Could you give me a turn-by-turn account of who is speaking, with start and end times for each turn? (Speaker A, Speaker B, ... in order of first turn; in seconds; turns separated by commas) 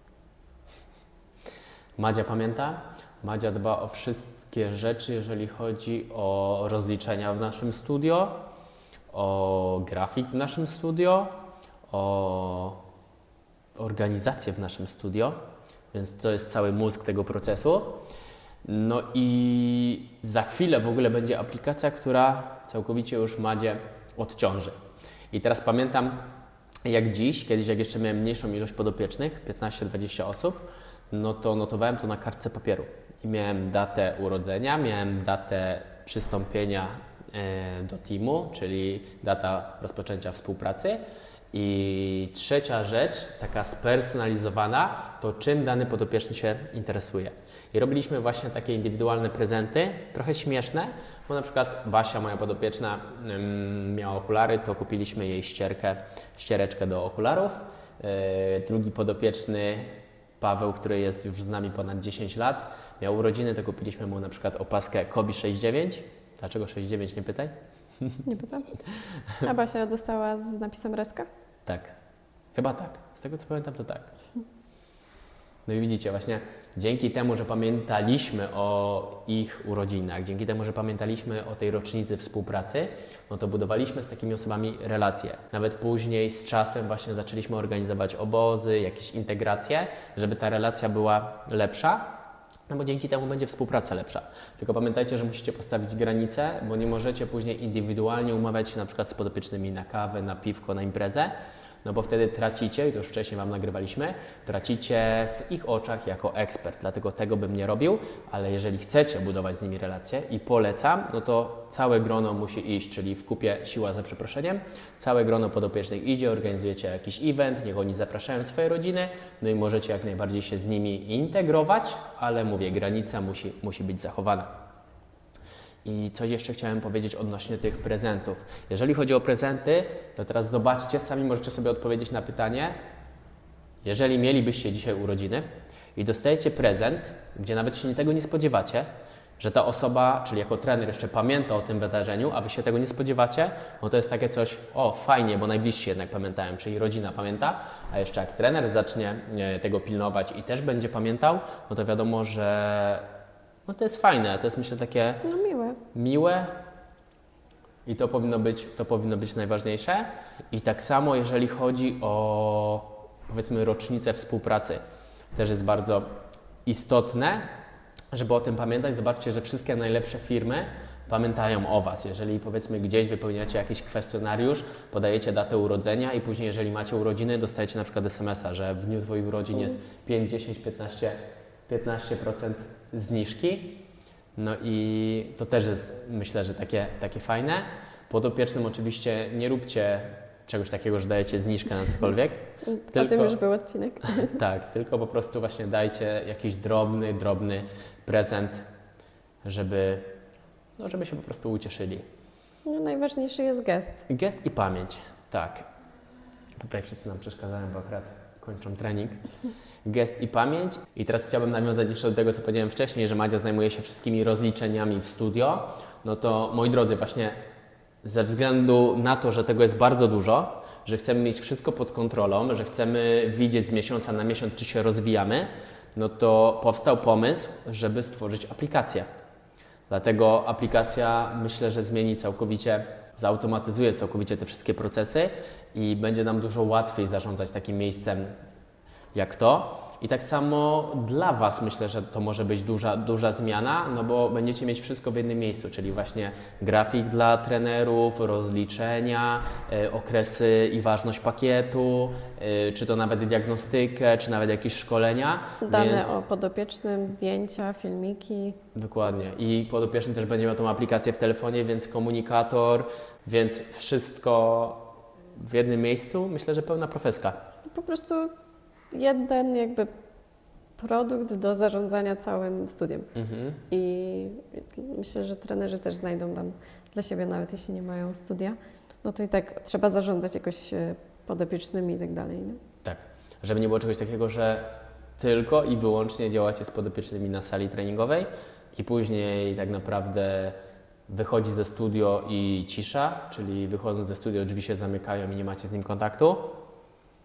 Speaker A: 2.0-8.5, Speaker A: 9.1-11.4, Speaker A: 11.9-12.8, Speaker A: 13.8-15.4, Speaker A: 15.9-18.1, Speaker A: 18.6-24.8, Speaker A: 25.3-26.3, Speaker A: 26.9-68.2, Speaker B: 68.3-68.7, Speaker B: 69.4-71.3, Speaker A: 71.7-71.9, Speaker A: 72.5-74.1, Speaker A: 75.7-92.1, Speaker A: 92.7-101.3, Speaker A: 101.8-124.5, Speaker A: 125.8-132.8, Speaker A: 133.8-153.1, Speaker A: 153.7-155.2, Speaker B: 155.2-155.8, Speaker A: 155.9-156.5, Speaker A: 157.9-164.8, Speaker A: 165.3-166.1, Speaker A: 166.7-167.5, Speaker A: 168.1-183.8, Speaker A: 184.4-193.4, Speaker B: 192.7-194.4, Speaker A: 194.2-198.6, Speaker A: 199.4-200.1, Speaker A: 200.8-202.0, Speaker B: 202.7-204.0, Speaker A: 204.1-205.7, Speaker A: 206.6-209.2, Speaker A: 209.8-217.4, Speaker A: 218.0-229.1, Speaker A: 229.9-238.3, Speaker A: 239.1-256.1, Speaker B: 255.6-258.6, Speaker A: 258.8-267.4, Speaker B: 267.7-268.3, Speaker B: 268.9-269.9, Speaker B: 270.8-273.1, Speaker A: 273.1-273.6, Speaker B: 273.7-282.6, Speaker A: 282.8-290.6, Speaker A: 291.1-296.6